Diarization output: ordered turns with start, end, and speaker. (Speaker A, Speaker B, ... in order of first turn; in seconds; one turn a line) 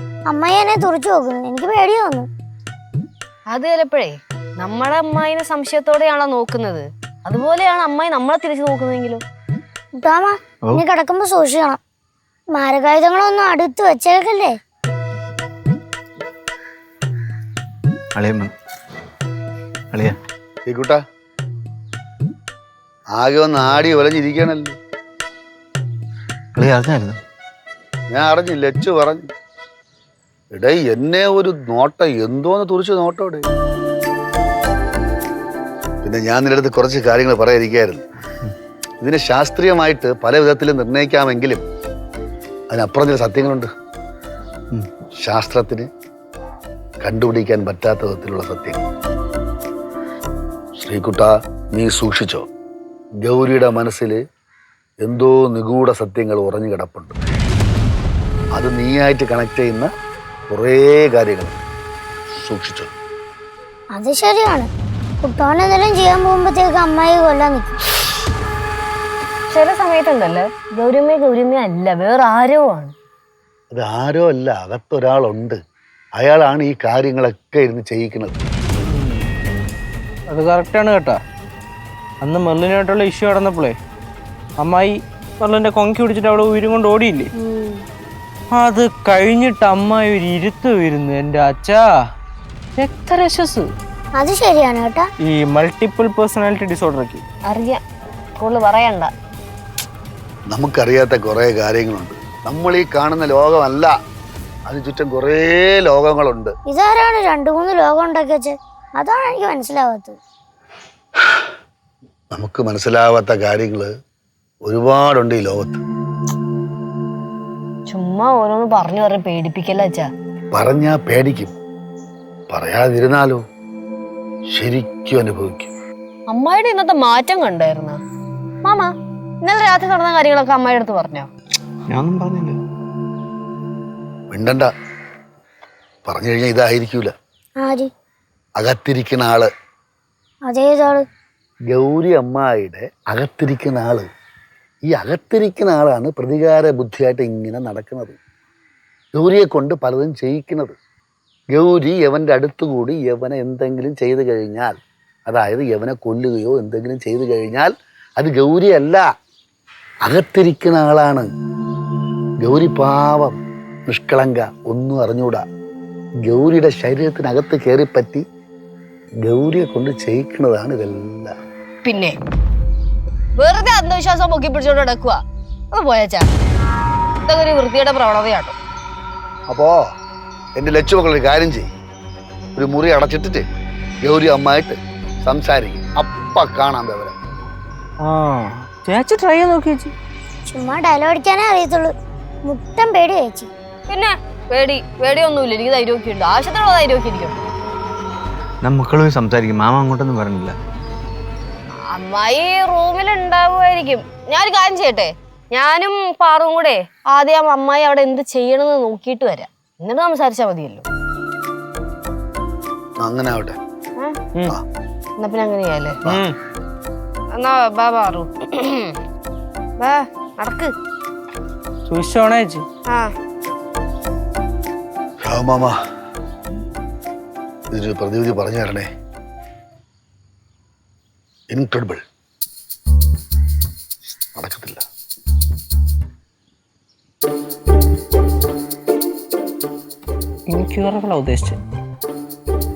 Speaker A: 0.3-2.3
Speaker B: 3.5-9.2
Speaker A: 10.0-11.8
Speaker A: 12.5-14.6
Speaker C: 18.2-18.5
Speaker D: 20.7-21.0
Speaker D: 23.1-24.8
Speaker C: 26.6-27.1
Speaker D: 28.1-29.3
Speaker D: 30.5-33.5
Speaker D: 36.0-38.0
Speaker D: 39.0-41.6
Speaker D: 42.7-43.7
Speaker D: 45.2-45.9
Speaker D: 47.0-48.8
Speaker D: 50.8-52.5
Speaker D: 53.2-54.2
Speaker D: 55.0-57.1
Speaker D: 58.5-59.9
Speaker D: 60.5-61.6
Speaker D: 62.4-62.9
Speaker A: 63.9-64.7
Speaker A: 65.2-67.8
Speaker B: 69.5-72.9
Speaker D: 73.7-75.6
Speaker D: 76.2-78.4
Speaker E: 78.9-79.2
Speaker E: 80.3-81.2
Speaker E: 82.2-83.8
Speaker E: 84.6-87.3
Speaker A: 87.5-87.8
Speaker E: 88.5-91.8
Speaker E: 92.8-93.7
Speaker A: 94.2-95.1
Speaker E: 95.2-97.2
Speaker B: 97.5-97.8
Speaker B: 98.4-99.1
Speaker D: 100.5-103.9
Speaker D: 104.7-106.5
Speaker A: 106.7-110.2
Speaker D: 112.3-113.9
Speaker D: 114.7-115.8
Speaker B: 117.9-120.1
Speaker D: 120.5-121.5
Speaker D: 122.5-123.4
Speaker D: 124.5-125.7
Speaker B: 126.3-128.0
Speaker B: 128.7-128.9
Speaker B: 129.5-131.3
Speaker C: 131.9-132.6
Speaker D: 134.3-134.7
Speaker D: 136.1-137.1
Speaker A: 137.6-137.9
Speaker D: 138.6-139.5
Speaker A: 140.5-141.1
Speaker D: 141.7-144.1
Speaker D: 144.9-148.2
Speaker D: 149.2-150.8
Speaker D: 151.5-154.8
Speaker D: 155.3-159.1
Speaker D: 160.0-161.3
Speaker D: 162.4-165.4
Speaker D: 166.2-168.2
Speaker D: 169.2-171.3
Speaker B: 171.8-172.2
Speaker B: 173.4-175.2
Speaker B: 175.7-176.3
Speaker B: 177.2-178.6
Speaker D: 179.5-179.8
Speaker D: 180.6-181.7
Speaker D: 182.6-183.5
Speaker D: 184.0-187.1
Speaker E: 188.0-189.9
Speaker A: 190.5-191.9
Speaker A: 192.5-193.5
Speaker B: 193.9-197.5
Speaker C: 198.7-200.6
Speaker B: 201.9-210.8
Speaker D: 213.0-213.6
Speaker B: 215.2-216.0
Speaker B: 217.3-219.0
Speaker B: 219.8-220.7
Speaker E: 221.9-222.7
Speaker D: 225.2-225.8
Speaker D: 227.7-228.9
Speaker D: 231.5-232.0
Speaker D: 234.3-234.8
Speaker E: 240.5-241.6